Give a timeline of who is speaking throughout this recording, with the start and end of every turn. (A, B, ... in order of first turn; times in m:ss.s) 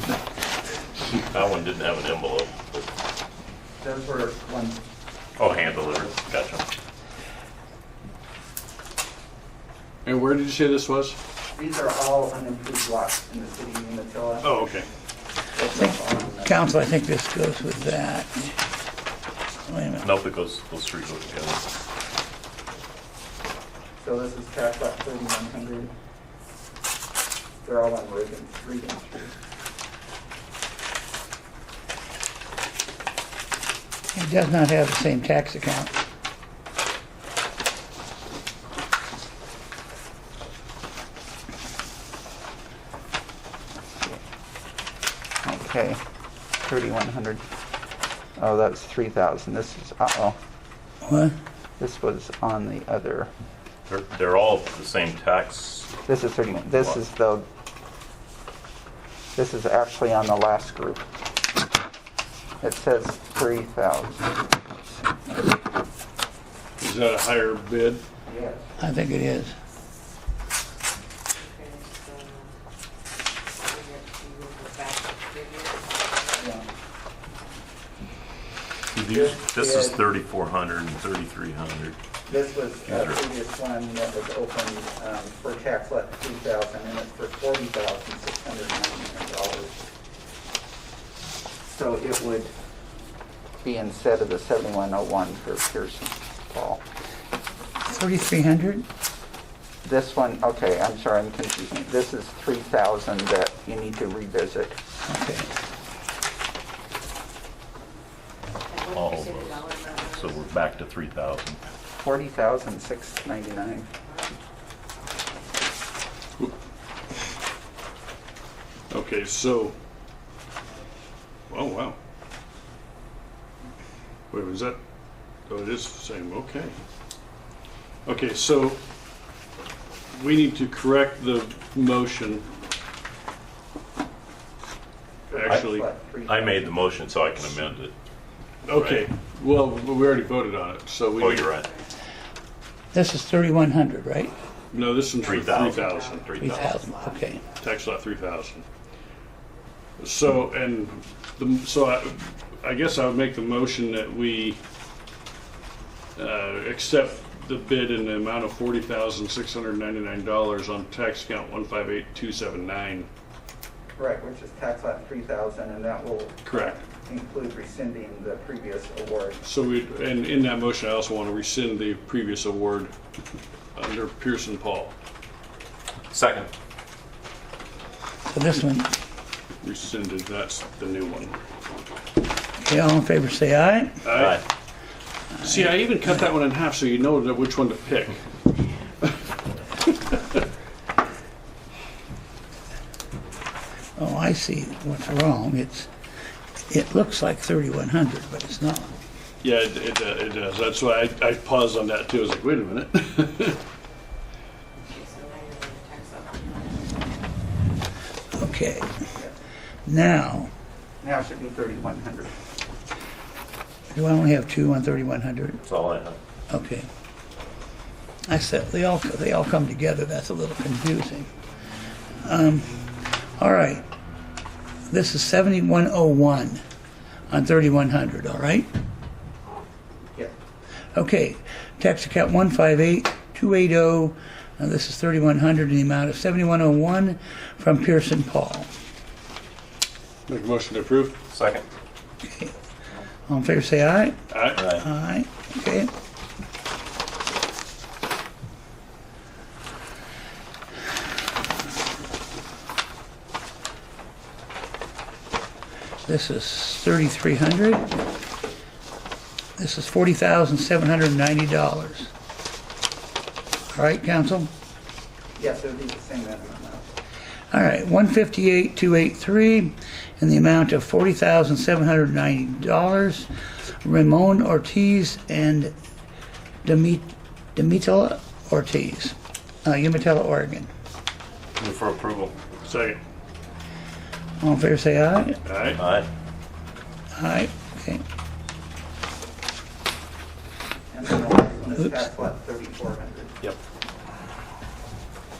0:01.1-0:02.8 A
0:03.8-0:04.8 B
0:05.4-0:06.6 A
0:05.5-0:06.1 B
0:10.0-0:11.2 C
0:11.5-0:14.7 B
0:14.4-0:14.9 C
0:15.5-0:16.6 B
0:15.8-0:18.5 D
0:19.6-0:20.1 D
0:20.0-0:21.6 A
0:24.0-0:25.9 B
0:27.6-0:29.3 B
0:34.1-0:35.9 D
0:45.4-0:46.0 B
0:46.6-0:47.4 B
0:48.4-0:50.4 B
0:51.0-0:51.3 D
0:51.8-0:53.3 B
0:53.9-0:55.9 A
0:56.0-0:57.4 B
0:59.3-1:01.0 B
1:02.6-1:04.6 B
1:05.1-1:05.5 B
1:06.8-1:08.0 C
1:08.2-1:08.7 B
1:08.8-1:09.5 D
1:11.3-1:12.5 E
1:13.6-1:16.6 E
1:16.4-1:16.6 B
1:18.9-1:22.0 A
1:19.1-1:20.0 B
1:22.2-1:29.9 B
1:22.9-1:23.2 A
1:31.7-1:32.5 B
1:33.6-1:36.8 B
1:37.9-1:38.8 D
1:39.8-1:44.8 B
1:45.1-1:45.5 D
1:48.7-1:50.4 E
1:48.9-1:51.6 A
1:52.0-1:53.9 B
1:58.9-1:59.8 C
2:01.5-2:02.0 C
2:04.3-2:04.8 C
2:05.5-2:06.8 C
2:08.0-2:08.8 C
2:10.1-2:12.5 C
2:15.3-2:16.8 B
2:15.3-2:15.9 C
2:16.2-2:17.9 A
2:18.6-2:21.5 C
2:18.7-2:19.1 A
2:21.2-2:21.7 A
2:22.9-2:24.3 D
2:24.7-2:26.4 C
2:25.2-2:26.8 A
2:25.9-2:27.6 E
2:26.4-2:27.4 D
2:27.6-2:28.7 C
2:30.0-2:34.6 C
2:36.2-2:43.1 C
2:44.0-2:49.4 B
2:46.4-2:46.8 C
2:49.4-2:52.9 C
2:53.7-2:54.9 C
2:56.1-2:56.5 A
2:58.3-2:58.9 D
2:59.6-3:01.4 C
3:02.6-3:04.0 D
3:04.0-3:04.4 C
3:04.1-3:04.4 A
3:05.4-3:08.2 C
3:09.9-3:10.4 C
3:14.0-3:15.9 D
3:16.7-3:18.9 D
3:19.4-3:23.6 C
3:24.8-3:27.1 E
3:28.4-3:28.9 D
3:29.8-3:30.5 D
3:31.0-3:32.3 B
3:33.9-3:35.6 D
3:35.6-3:36.2 A
3:36.5-3:36.9 D
3:38.3-3:41.3 D
3:42.2-3:43.8 D
3:44.9-3:46.6 D
3:47.3-3:48.7 D
3:50.9-3:58.7 D
4:00.3-4:01.2 C
4:01.3-4:01.7 A
4:02.2-4:02.5 D
4:03.3-4:04.2 D
4:04.3-4:04.6 C
4:04.5-4:04.9 A
4:04.7-4:05.9 D
4:16.0-4:17.9 D
4:19.6-4:22.1 D
4:23.7-4:24.5 D
4:25.4-4:26.8 B
4:27.5-4:33.3 D
4:33.8-4:35.7 D
4:36.6-4:40.7 D
4:41.6-4:42.4 A
4:42.6-4:43.0 C
4:44.4-4:45.4 D
4:45.4-4:45.8 C
4:45.7-4:46.1 A
4:47.2-4:48.0 D
4:50.9-4:53.4 B